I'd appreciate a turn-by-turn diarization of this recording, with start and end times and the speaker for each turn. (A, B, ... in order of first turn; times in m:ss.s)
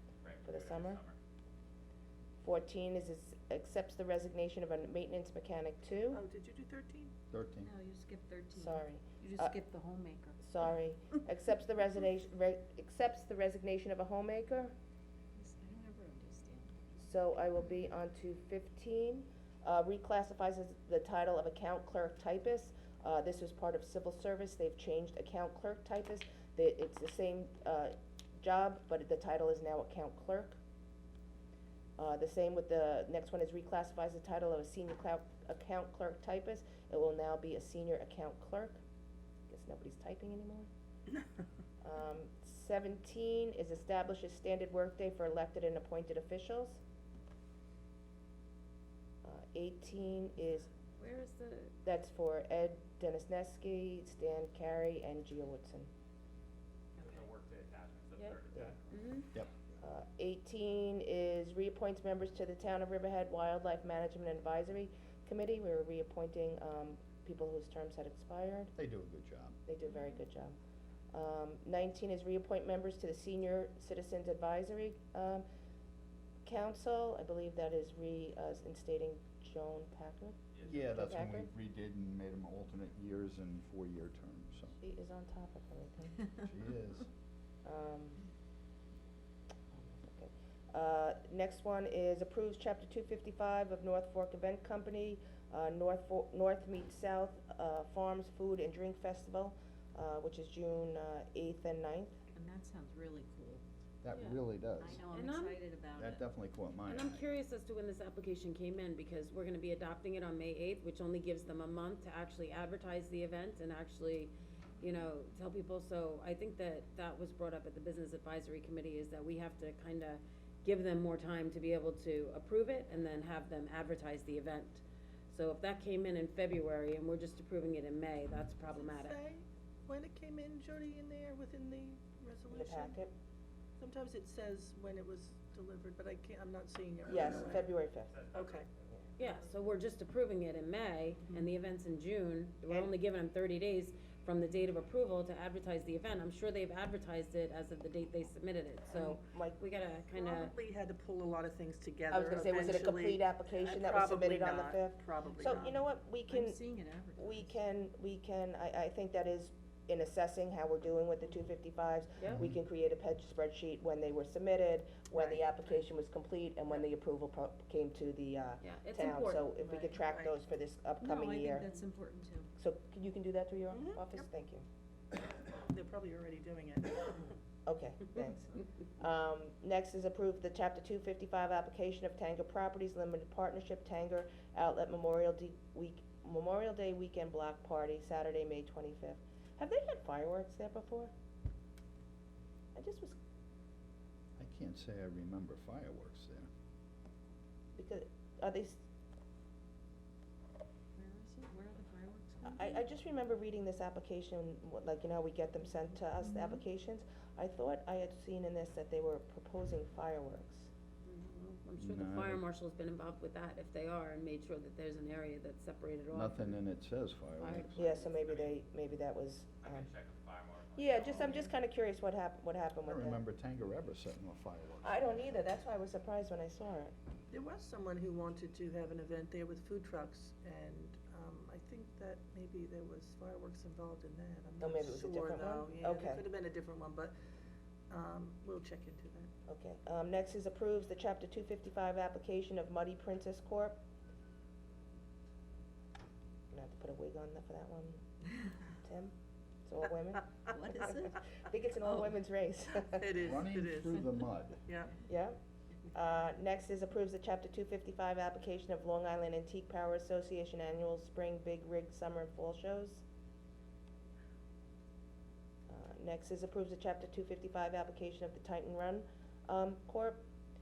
0:00.2-0:01.2 A
0:00.4-0:01.0 B
0:02.4-0:06.2 B
0:06.1-0:07.1 C
0:07.3-0:07.7 D
0:07.6-0:10.4 E
0:08.5-0:09.6 B
0:10.4-0:14.7 B
0:15.4-0:17.0 E
0:17.0-0:30.6 B
0:32.0-0:38.8 B
0:39.5-0:40.7 B
0:41.8-0:46.8 B
0:49.2-0:50.7 B
0:51.0-0:51.7 F
0:51.8-0:55.9 B
0:57.0-0:59.0 A
0:57.0-0:57.3 E
0:58.9-0:59.3 F
0:59.8-1:08.7 B
1:08.8-1:09.6 D
1:09.7-1:10.6 B
1:09.8-1:10.2 F
1:11.1-1:15.4 B
1:16.4-1:21.5 B
1:20.5-1:20.8 A
1:20.7-1:24.8 D
1:24.8-1:26.2 B
1:26.4-1:27.1 D
1:27.6-1:28.2 B
1:29.7-1:42.2 B
1:42.3-1:43.6 E
1:44.0-1:45.0 D
1:44.1-1:44.4 F
1:44.8-1:46.2 E
1:45.1-1:45.6 F
1:46.0-1:47.2 D
1:46.9-2:09.2 F
2:08.6-2:13.0 C
2:12.5-2:13.1 B
2:13.8-2:17.6 C
2:17.1-2:18.1 B
2:18.1-2:18.7 A
2:18.3-2:18.7 C
2:19.2-2:30.5 F
2:28.9-2:29.6 B
2:30.1-2:35.8 C
2:32.1-2:36.6 B
2:36.3-2:37.5 E
2:37.2-2:51.7 B
2:45.1-2:45.4 C
2:48.6-2:50.0 F
2:50.0-2:50.4 C
2:51.0-2:52.5 E
2:52.6-2:54.6 B
2:53.7-2:54.0 C
2:55.7-2:57.4 C
2:57.7-3:11.1 B
3:12.8-3:13.2 B
3:14.4-3:16.5 D
3:17.8-3:18.8 B
3:21.0-3:22.8 E
3:22.4-3:30.7 B
3:31.0-3:36.6 F
3:31.8-3:32.4 D
3:36.1-3:37.8 D
3:37.4-3:38.2 F
3:37.8-3:39.9 B
3:38.1-3:38.6 A
3:39.6-3:41.5 A
3:40.8-3:43.2 B
3:42.8-3:45.2 D
3:44.8-3:46.9 B
3:47.3-3:57.1 C
3:54.6-3:56.2 B
3:57.9-3:59.3 C
3:59.5-4:03.8 B
4:06.5-4:08.0 B
4:08.7-4:09.1 B
4:09.7-4:13.1 B
4:10.5-4:11.2 E
4:11.8-4:12.1 E
4:13.0-4:15.0 C
4:13.2-4:14.6 D
4:15.0-4:15.4 B
4:15.9-4:23.0 B
4:25.7-4:30.2 B